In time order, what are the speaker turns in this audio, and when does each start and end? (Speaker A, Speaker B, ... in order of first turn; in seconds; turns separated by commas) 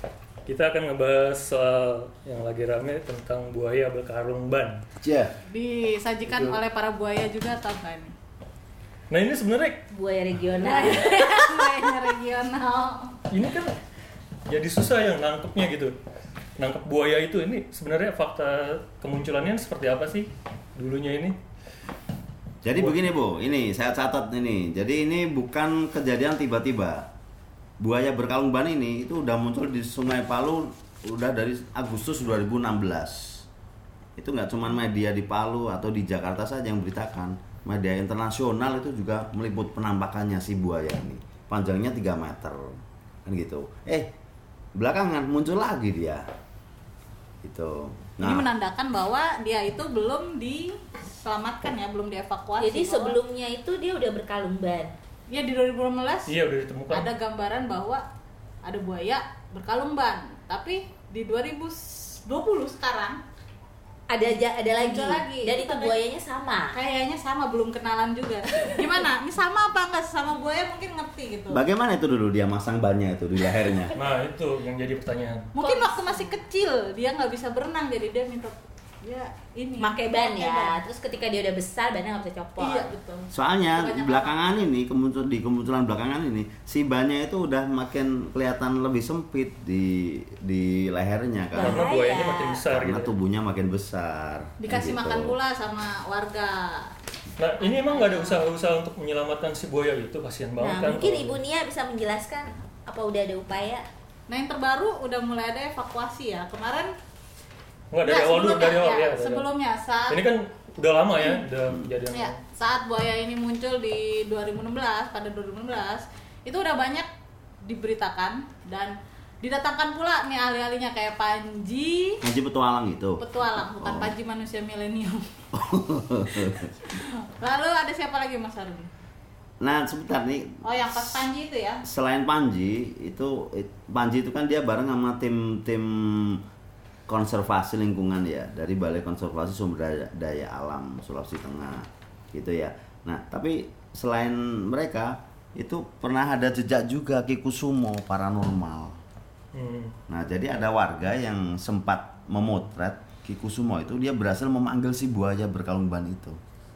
Speaker A: 0.5-4.8, Speaker B: 5.0-5.3, Speaker C: 5.5-8.1, Speaker A: 6.3-6.6, Speaker A: 9.1-9.8, Speaker D: 9.9-12.0, Speaker C: 10.6-13.2, Speaker A: 13.3-13.7, Speaker A: 14.5-15.9, Speaker A: 16.6-21.4, Speaker B: 22.6-27.1, Speaker A: 22.7-23.1, Speaker B: 27.8-33.5, Speaker B: 34.2-44.1, Speaker B: 44.8-46.3, Speaker B: 47.4-48.5, Speaker C: 48.2-53.2, Speaker D: 52.6-54.9, Speaker C: 55.3-56.3, Speaker A: 56.3-57.1, Speaker C: 56.9-58.0, Speaker C: 58.6-63.2, Speaker D: 64.1-66.8, Speaker C: 64.7-66.0, Speaker C: 66.7-71.6, Speaker B: 71.5-73.9, Speaker A: 73.9-75.6, Speaker C: 75.5-80.8, Speaker D: 75.6-76.3, Speaker D: 79.8-82.9, Speaker C: 82.6-84.3, Speaker B: 83.3-91.9, Speaker D: 91.5-92.6, Speaker A: 91.6-93.1, Speaker B: 92.7-95.3, Speaker C: 94.6-96.9, Speaker A: 97.4-101.4, Speaker D: 97.9-98.3, Speaker D: 100.6-103.9, Speaker C: 104.3-106.9, Speaker A: 107.9-109.5, Speaker C: 108.0-110.2, Speaker A: 110.1-112.4, Speaker C: 112.1-117.1, Speaker C: 117.6-122.2, Speaker B: 122.2-124.1, Speaker C: 123.2-125.2, Speaker B: 125.5-126.7, Speaker C: 126.3-128.9, Speaker B: 129.6-131.2, Speaker C: 130.6-131.8, Speaker B: 131.8-136.4, Speaker B: 137.1-149.0, Speaker A: 149.5-149.9, Speaker B: 150.1-156.4